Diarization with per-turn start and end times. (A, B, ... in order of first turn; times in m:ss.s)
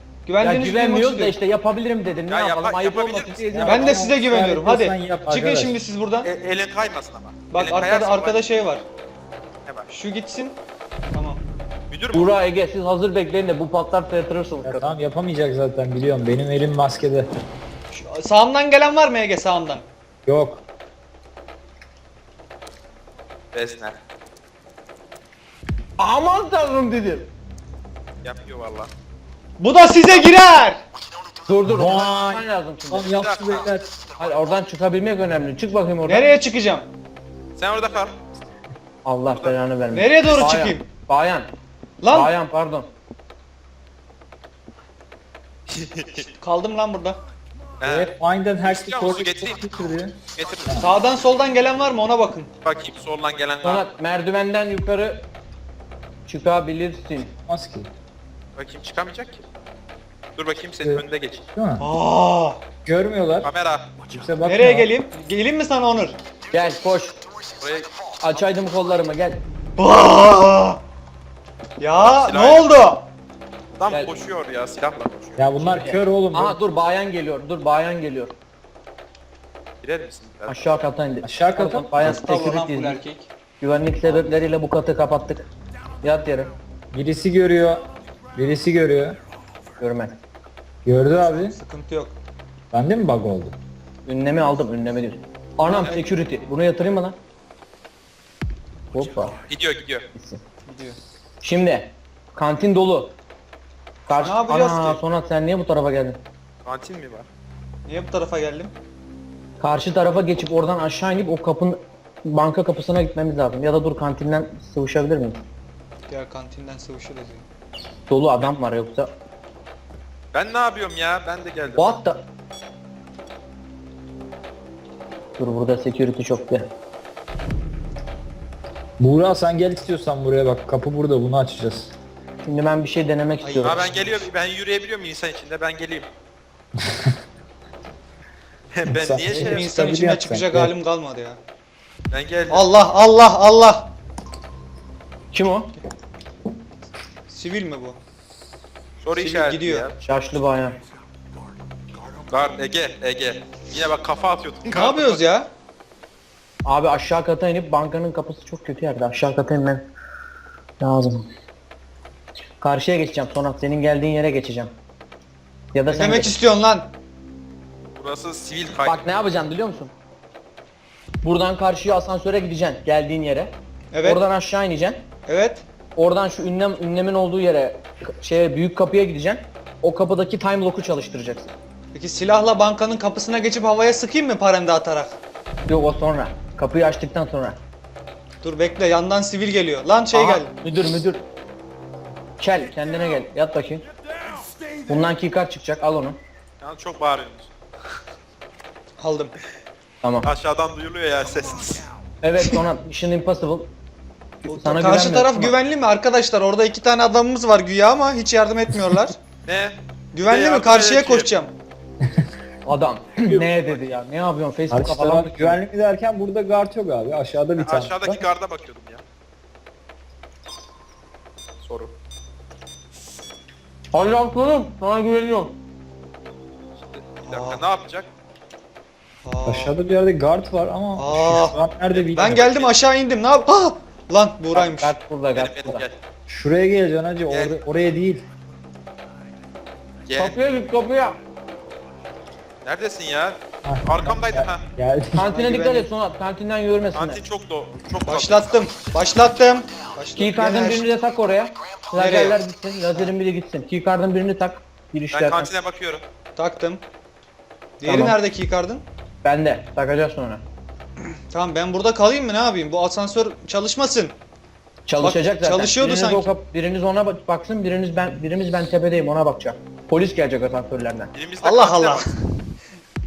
0:00.3-0:01.4 A
0:00.4-0:04.1 B
0:02.3-0:03.6 C
0:03.5-0:05.8 D
0:03.7-0:06.3 A
0:06.2-0:08.5 C
0:07.5-0:08.8 A
0:09.9-0:10.6 A
0:11.1-0:11.4 A
0:11.9-0:12.4 C
0:12.1-0:14.9 B
0:14.6-0:17.3 D
0:17.9-0:19.8 A
0:20.3-0:20.6 D
0:23.5-0:24.0 C
0:26.0-0:27.3 B
0:28.2-0:28.9 C
0:29.6-0:30.8 A
0:31.5-0:33.1 B
0:31.6-0:33.9 D
0:33.2-0:33.8 C
0:34.2-0:36.3 B
0:36.0-0:36.9 A
0:37.6-0:38.2 C
0:39.0-0:41.5 B
0:39.3-0:39.6 C
0:39.9-0:40.8 A
0:42.0-0:42.3 A
0:42.1-0:42.9 B
0:45.7-0:46.3 C
0:46.4-0:47.2 A
0:47.8-0:50.8 C
0:47.8-0:50.9 D
0:50.8-0:52.5 A
0:52.6-0:53.9 C
0:53.6-0:55.3 B
0:56.3-0:57.3 B
0:57.5-0:57.9 D
0:58.6-0:59.4 C
1:00.4-1:01.4 C
1:00.8-1:01.9 D
1:01.8-1:02.6 A
1:02.8-1:03.5 D
1:03.4-1:04.0 C
1:04.1-1:04.9 D
1:04.4-1:06.2 A
1:06.5-1:07.2 B
1:07.6-1:07.9 C
1:08.2-1:09.4 B
1:09.8-1:10.8 A
1:11.8-1:13.1 A
1:12.0-1:12.7 C
1:13.8-1:15.5 C
1:13.9-1:14.2 B
1:15.4-1:16.6 D
1:15.6-1:18.4 B
1:19.8-1:20.8 C
1:20.5-1:23.0 B
1:21.2-1:22.2 D
1:21.9-1:23.3 A
1:23.6-1:25.5 B
1:26.0-1:26.5 B
1:26.9-1:27.8 D
1:28.4-1:29.2 D
1:29.8-1:30.2 B
1:30.8-1:31.6 D
1:31.2-1:32.2 A
1:32.7-1:33.6 D
1:34.1-1:37.2 B
1:35.7-1:36.0 C
1:38.9-1:39.4 B
1:39.5-1:40.1 C
1:40.1-1:40.4 B
1:40.7-1:41.0 A
1:41.4-1:43.2 B
1:44.1-1:46.2 B
1:44.2-1:45.0 A
1:46.6-1:47.3 C
1:47.9-1:48.7 A
1:49.6-1:55.4 B
1:56.1-1:57.5 A
1:58.1-1:59.1 B
2:00.3-2:02.0 C
2:01.8-2:02.2 B
2:05.4-2:06.7 B
2:09.0-2:11.9 D
2:12.4-2:13.8 B
2:13.4-2:14.3 A
2:13.6-2:16.1 C
2:16.9-2:17.1 D
2:18.7-2:19.7 C
2:18.8-2:20.7 D
2:19.3-2:21.4 A
2:22.1-2:22.8 C
2:22.5-2:23.9 A
2:25.3-2:25.7 B
2:27.3-2:28.0 A
2:29.0-2:30.0 C
2:29.2-2:29.9 A
2:30.0-2:30.8 B
2:32.3-2:35.2 C
2:34.7-2:35.5 A
2:36.6-2:39.9 B
2:40.8-2:41.3 B
2:42.6-2:44.7 B
2:45.7-2:46.4 B
2:45.9-2:46.9 A
2:48.0-2:49.0 C
2:48.8-2:49.9 B
2:51.2-2:55.1 B
2:53.9-2:54.2 A
2:55.3-2:55.6 A
2:56.0-3:01.5 B
3:01.9-3:05.2 A
3:05.7-3:07.6 B
3:08.4-3:10.5 A
3:10.1-3:11.2 B
3:12.4-3:13.8 B
3:14.8-3:16.2 B
3:16.6-3:17.5 C
3:19.0-3:19.4 A
3:20.0-3:20.3 B
3:20.2-3:21.9 C
3:22.2-3:23.7 B
3:24.4-3:25.5 B
3:24.5-3:29.2 A
3:29.4-3:31.3 C
3:30.1-3:31.5 A
3:32.6-3:35.6 B
3:33.3-3:33.6 C
3:34.7-3:38.2 D
3:37.6-3:39.0 C
3:41.6-3:41.9 C
3:43.9-3:45.6 B
3:46.8-3:48.1 C
3:47.2-3:47.6 A
3:49.2-3:49.8 A
3:49.4-3:52.4 D
3:51.0-3:51.6 A
3:51.6-3:52.8 C
3:52.1-3:55.0 A
3:54.5-3:55.9 B
3:55.3-3:56.0 C
3:56.3-3:58.2 D
3:57.3-3:57.6 C
4:00.1-4:00.4 C
4:00.2-4:01.2 B
4:02.6-4:04.7 C
4:03.6-4:05.3 D
4:05.1-4:07.2 B
4:05.2-4:05.9 A
4:07.0-4:08.9 C
4:08.1-4:10.9 A
4:10.2-4:15.5 B
4:11.9-4:12.4 A
4:15.1-4:16.0 C
4:16.4-4:16.8 A
4:17.8-4:18.8 A
4:17.8-4:18.2 B
4:19.2-4:20.4 B
4:21.3-4:24.2 A
4:24.9-4:31.1 B
4:25.0-4:26.3 A
4:31.1-4:32.1 C
4:31.4-4:32.2 A